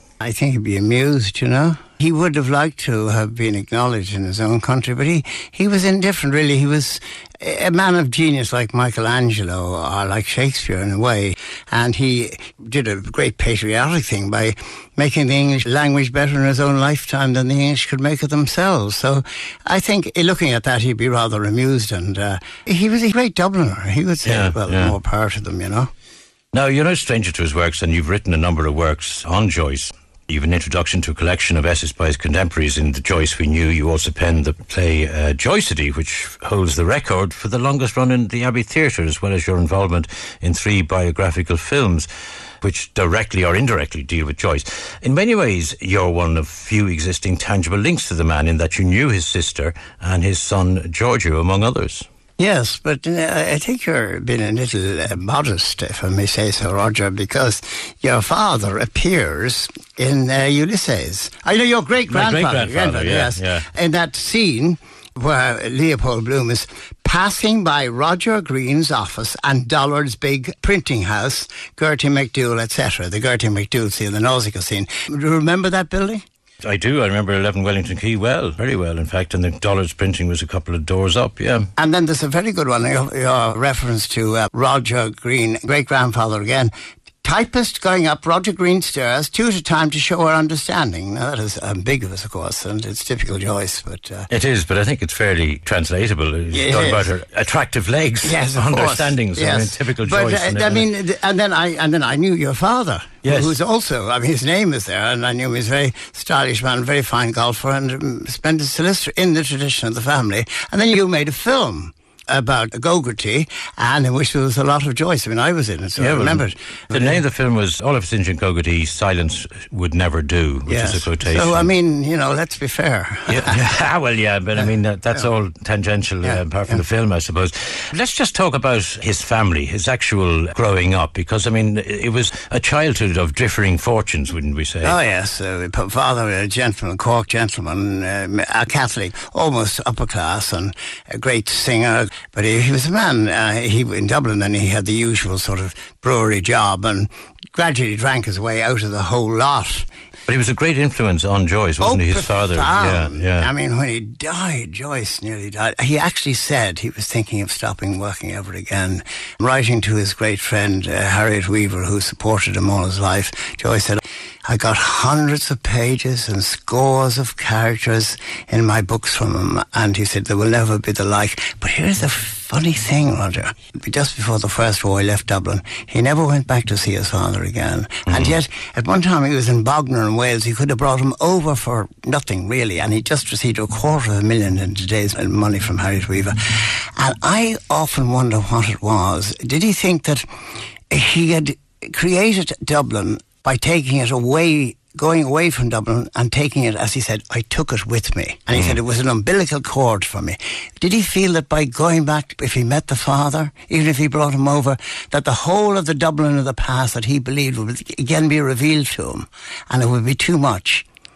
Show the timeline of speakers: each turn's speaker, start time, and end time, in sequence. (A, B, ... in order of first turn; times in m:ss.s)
0:00.2-0:25.9 A
0:24.2-0:25.0 B
0:26.5-0:42.1 B
0:42.6-0:52.1 B
0:52.4-1:16.2 A
1:02.1-1:03.7 B
1:16.6-1:21.7 B
1:21.8-1:26.7 A
1:27.2-1:34.3 A
1:34.3-1:40.8 B
1:36.5-1:37.1 A
1:38.2-1:57.2 A
1:43.2-1:43.6 B
1:56.0-2:01.7 B
2:00.7-2:03.7 A
2:03.3-2:15.0 B
2:06.2-2:06.8 A
2:14.8-2:29.9 A
2:30.3-2:33.5 B
2:31.8-3:10.2 A
2:58.1-2:58.3 B
3:10.9-3:30.9 A